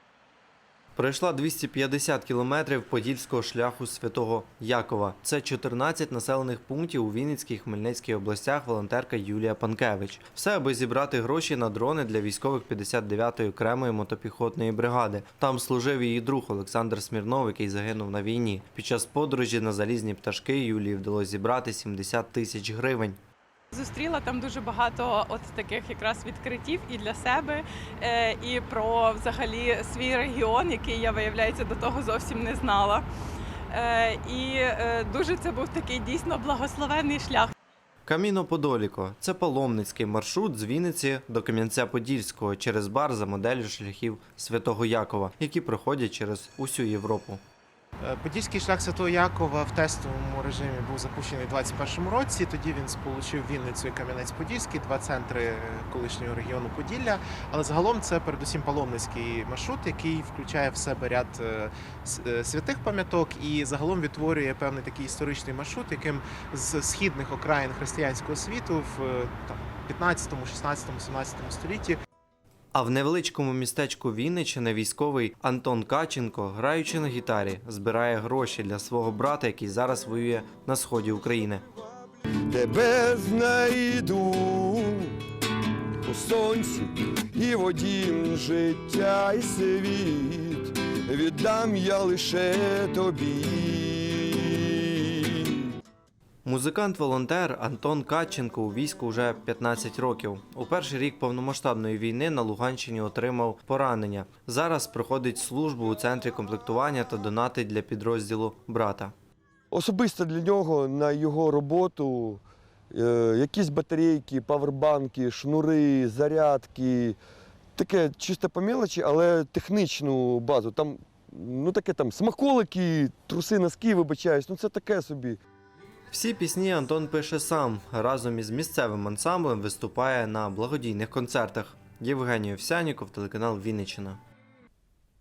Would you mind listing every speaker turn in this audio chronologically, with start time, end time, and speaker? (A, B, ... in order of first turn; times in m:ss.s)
0:01.0-0:23.2 A
0:23.7-0:33.0 B
0:33.7-0:37.5 B
0:38.1-0:47.4 A
0:48.0-1:12.0 C
1:12.7-1:21.6 A
1:22.5-1:25.1 D
1:26.0-1:35.6 D
1:36.4-1:49.1 A
1:49.7-1:57.2 D
1:57.8-2:05.4 D
2:06.1-2:14.2 A